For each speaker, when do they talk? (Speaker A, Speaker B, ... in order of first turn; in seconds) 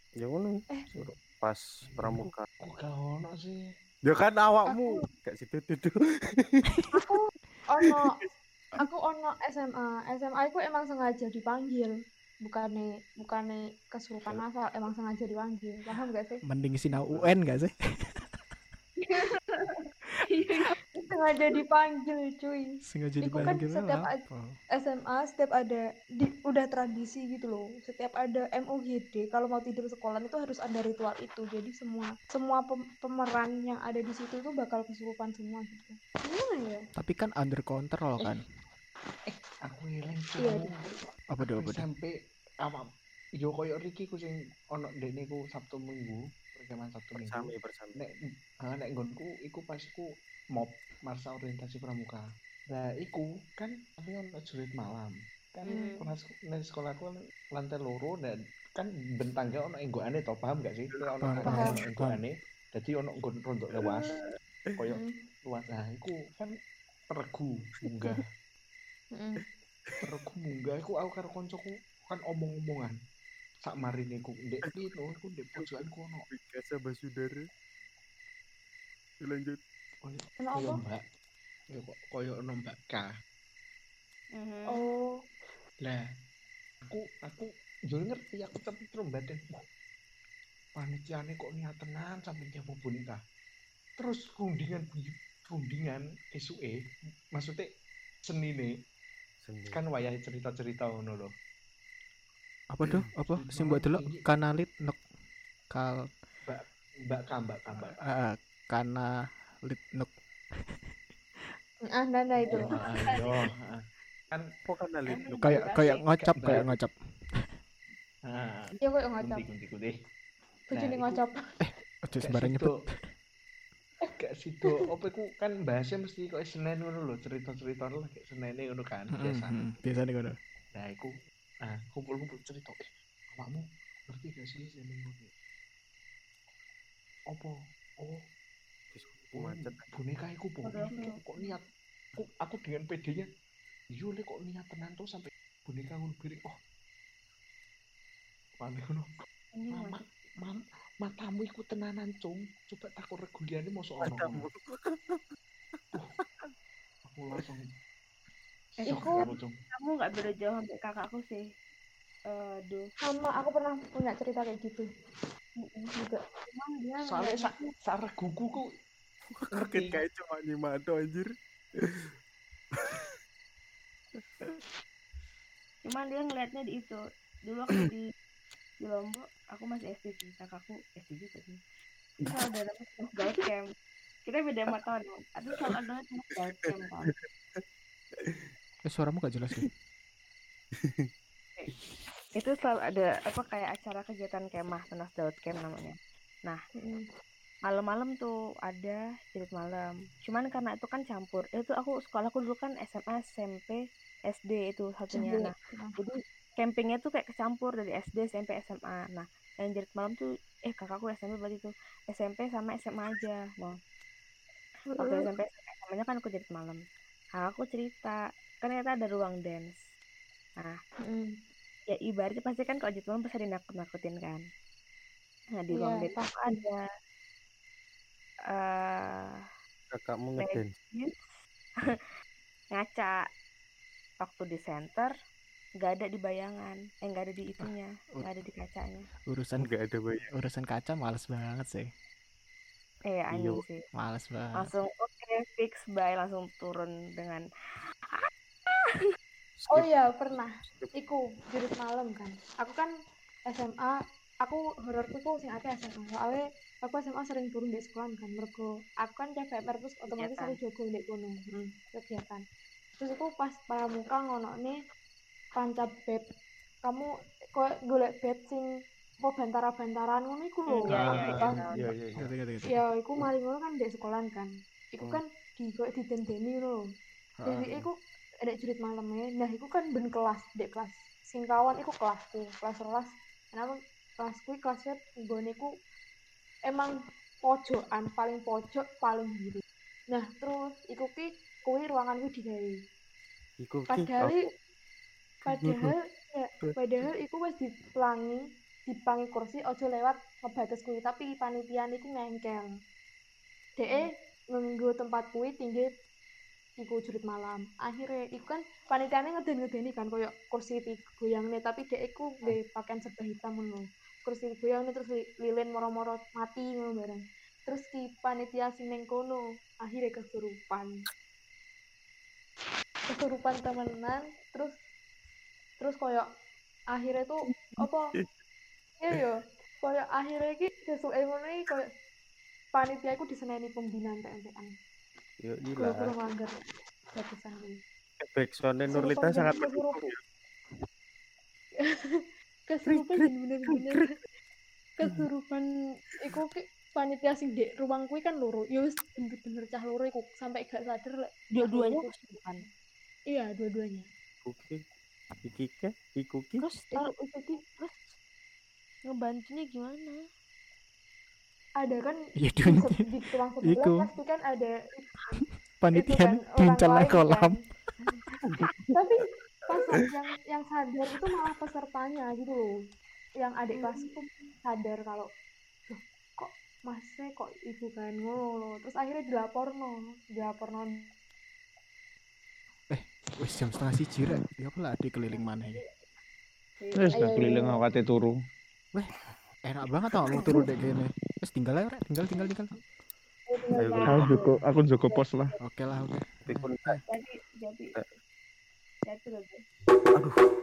Speaker A: 0.2-0.6, 1.4-2.5, 4.0-6.8, 16.9-17.4, 47.2-48.0, 75.6-77.5, 79.2-79.6, 99.4-99.8, 114.7-115.7, 138.9-139.8, 154.0-155.2, 155.9-156.5, 169.3-172.1, 172.8-173.2, 174.2-174.6, 188.2-188.5, 190.7-191.1, 229.9-230.8, 239.6-240.3, 243.3-243.6, 249.6-250.9, 271.7-272.3, 293.6-294.5, 295.4-295.9, 335.4-336.1, 338.2-340.2, 342.9-344.1, 354.4-354.8, 355.4-356.6, 368.5-368.9, 393.8-394.3, 396.4-397.0
Speaker B: 2.1-3.6, 39.3-40.9, 41.4-42.9, 43.4-64.2, 64.8-66.5, 67.1-68.3, 70.0-73.0, 73.6-76.3, 80.0-81.0, 81.7-83.1, 86.9-89.6, 90.8-93.2, 94.0-96.8, 97.3-97.7, 98.2-98.7, 99.7-101.3, 103.3-104.2, 106.5-108.0, 112.4-114.5, 116.3-116.7, 118.3-119.9, 120.7-121.2, 122.2-122.8, 124.2-129.6, 130.8-131.1, 131.6-135.3, 137.3-138.3, 139.3-141.6, 142.1-143.3, 144.0-146.6, 148.6-154.5, 157.1-157.7, 158.8-159.5, 167.0-168.7, 169.5-170.0, 270.9-271.7, 386.9-388.3, 394.0-395.6
Speaker C: 4.7-5.0, 6.9-8.2, 8.8-16.4, 21.0-24.2, 24.8-36.9, 40.4-40.8, 55.7-55.9, 61.4-61.7, 64.9-65.2, 69.1-69.4, 80.4-80.8, 84.7-85.1, 111.9-112.8, 118.8-119.4, 120.7-121.4, 158.9-159.2, 163.1-164.9, 165.9-166.2, 196.8-197.1, 205.1-205.9, 214.9-215.3, 221.1-221.3, 225.7-226.6, 249.7-252.9, 253.5-262.4, 263.0-264.8, 265.6-266.2, 266.8-268.7, 269.2-271.8, 272.7-276.8, 277.4-285.7, 286.7-292.8, 293.9-294.5, 295.5-302.7, 303.8-305.9, 306.8-321.0, 323.1-324.8, 325.8-326.3, 326.9-328.1, 329.0-331.9, 332.7-334.7, 335.8-336.5, 337.1-337.8, 338.9-340.0, 341.8-344.1, 345.0-352.6, 353.3-354.1, 356.9-357.6, 361.8-365.3, 365.9-367.6, 368.9-372.8, 373.4-375.3, 375.9-381.1, 387.1-387.8, 393.5-394.6
Speaker D: 16.4-18.4, 22.9-24.6, 37.0-38.4, 41.3-41.9, 61.2-62.2, 102.7-105.0, 105.7-106.0, 108.0-109.1, 109.6-111.5, 115.4-117.5, 121.6-122.9, 129.1-130.4, 188.9-189.7, 237.6-238.3, 239.3-239.7, 240.3-241.9, 243.9-244.7, 272.1-272.9, 277.4-277.9, 362.4-363.1, 363.6-364.1, 365.4-367.6, 382.9-385.8, 389.6-392.8, 395.6-397.0
Speaker E: 19.0-20.8, 55.6-56.0, 84.4-84.8, 112.6-113.2, 115.1-116.1, 140.6-141.2, 149.6-150.0, 158.8-161.4, 162.3-162.9, 165.6-165.9, 166.5-167.7, 175.8-178.1, 178.8-181.6, 182.2-183.7, 184.3-187.1, 192.4-196.6, 197.7-203.8, 204.3-213.8, 214.9-216.8, 217.4-219.8, 221.9-224.4, 225.6-226.8, 228.5-229.5, 230.4-231.3, 232.7-233.2, 234.2-235.1, 235.8-239.1, 243.1-243.8, 244.6-247.4, 248.1-249.1, 260.1-260.6, 270.7-271.9, 351.5-352.6, 356.6-357.1, 357.7-358.0, 359.1-360.2, 385.3-385.8, 386.8-387.6, 393.8-394.5, 397.1-397.9, 399.1-399.6